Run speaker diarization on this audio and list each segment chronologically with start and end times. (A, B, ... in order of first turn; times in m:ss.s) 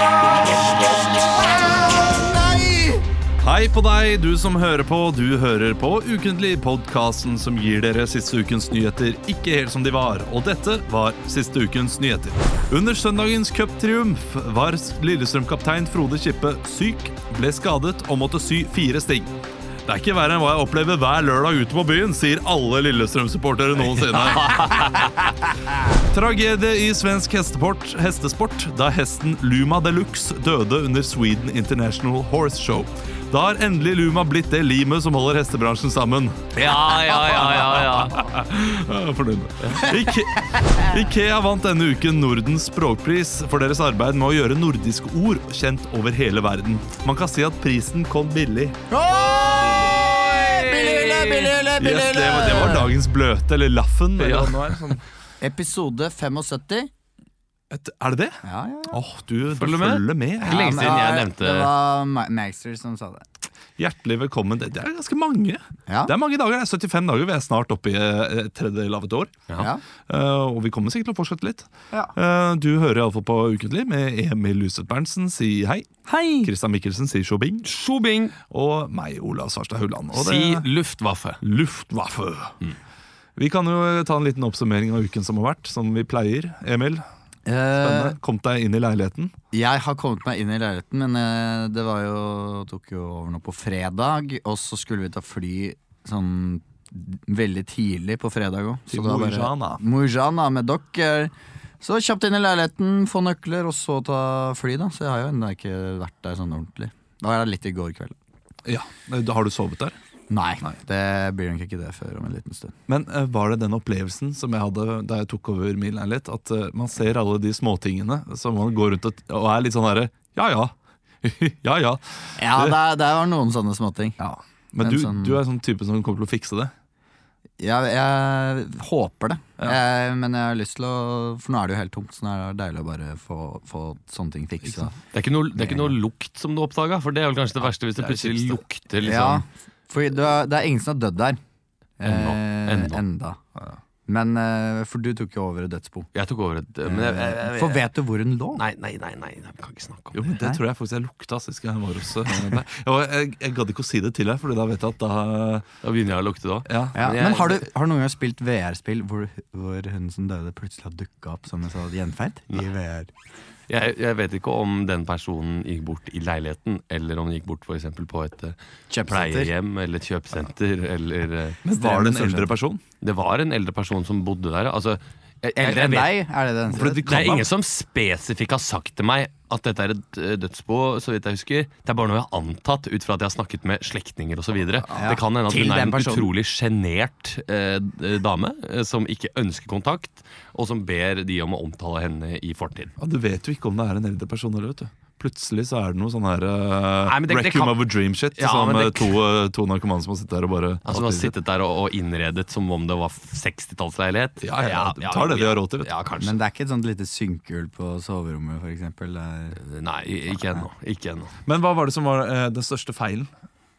0:01.1-0:03.0 A
0:03.4-0:19.3 B
0:19.9-0:25.0 B
0:24.3-0:25.1 C
0:26.0-0:48.8 B
0:36.6-0:38.3 C
0:39.8-0:40.9 A
0:48.9-0:52.9 A
0:49.9-0:51.6 C
0:51.8-0:55.0 B
0:54.2-0:55.0 C
0:55.4-0:56.9 A
0:57.7-1:01.1 B
0:58.4-0:59.0 A
0:59.5-1:01.7 C
1:00.4-1:03.2 A
1:03.8-1:09.4 B
1:05.9-1:06.1 A
1:10.1-1:17.7 B
1:16.1-1:16.5 A
1:17.6-1:18.4 C
1:18.4-1:20.7 B
1:20.1-1:21.4 C
1:21.4-1:22.6 B
1:23.4-1:27.0 B
1:27.4-1:28.2 A
1:27.8-1:29.3 B
1:29.5-1:48.1 A
1:38.9-1:39.8 B
1:48.7-1:50.0 B
1:50.3-1:52.8 A
1:52.9-2:02.8 B
2:02.4-2:04.2 A
2:04.2-2:06.7 B
2:04.8-2:05.4 A
2:07.6-2:14.9 A
2:15.1-2:19.4 C
2:15.6-2:15.9 A
2:18.0-2:18.6 B
2:19.0-2:21.4 A
2:22.0-2:23.4 A
2:22.0-2:23.0 C
2:24.1-2:26.1 A
2:26.1-2:27.8 C
2:26.8-2:28.6 A
2:28.6-2:30.2 C
2:30.1-2:35.7 B
2:35.8-2:37.6 C
2:36.7-2:37.0 B
2:37.0-2:43.1 A
2:43.7-2:51.6 C
2:48.9-2:49.5 A
2:51.6-2:52.8 B
2:51.8-2:52.5 A
2:53.0-2:56.1 C
2:55.6-2:57.1 A
2:56.7-2:57.5 B
2:57.0-3:12.9 C
3:04.8-3:05.2 B
3:04.9-3:06.3 A
3:13.0-3:21.3 B
3:17.0-3:19.2 C
3:20.8-3:26.4 C
3:24.4-3:25.9 B
3:26.2-3:29.6 A
3:29.6-3:31.3 C
3:31.4-3:33.3 B